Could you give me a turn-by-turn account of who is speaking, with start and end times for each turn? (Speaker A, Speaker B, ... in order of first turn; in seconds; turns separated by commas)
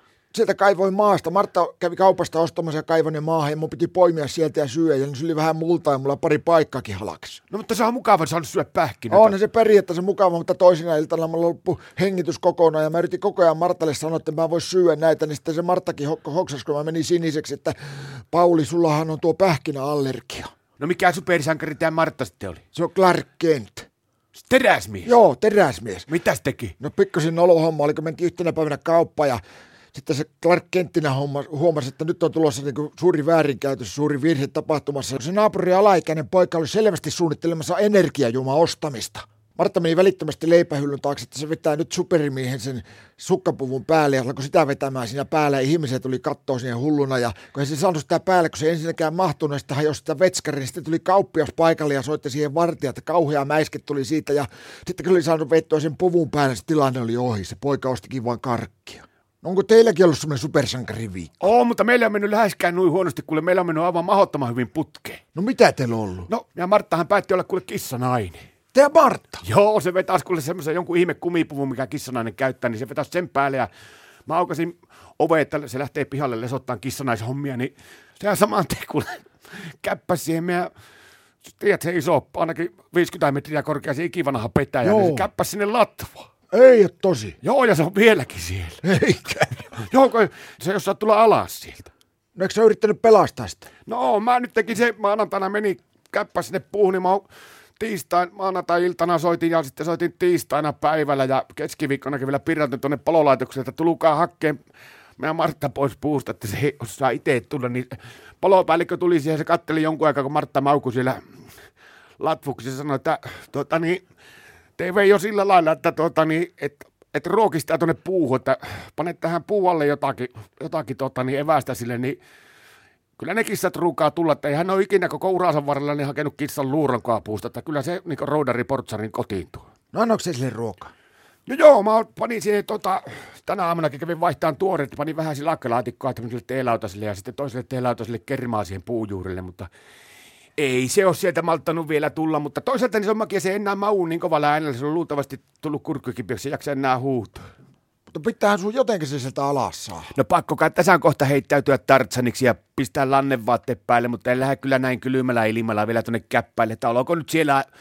Speaker A: 0.3-7.4, Speaker B: 7.5-9.3, Speaker A: 9.1-17.8, Speaker A: 18.3-20.5, Speaker B: 20.8-22.6, Speaker A: 22.7-23.9, Speaker B: 24.3-25.1, Speaker A: 25.0-26.1, Speaker B: 26.1-26.7, Speaker A: 26.8-29.4, Speaker A: 29.9-61.5, Speaker B: 61.4-65.2, Speaker A: 65.3-66.3, Speaker B: 66.3-68.4, Speaker A: 68.7-69.4, Speaker B: 69.4-73.7, Speaker B: 74.2-79.2, Speaker B: 79.8-80.7, Speaker B: 81.4-86.3, Speaker A: 84.8-85.3, Speaker A: 86.5-87.4, Speaker B: 87.4-88.8, Speaker A: 88.8-89.7, Speaker B: 89.8-91.9, Speaker A: 92.3-93.7, Speaker B: 93.8-97.2, Speaker B: 97.8-104.6, Speaker B: 105.2-111.2, Speaker B: 112.2-114.0, Speaker B: 114.8-122.2, Speaker B: 123.2-129.7, Speaker A: 129.9-130.9, Speaker B: 131.4-139.7, Speaker B: 140.6-147.4, Speaker A: 148.1-150.1, Speaker B: 150.1-157.6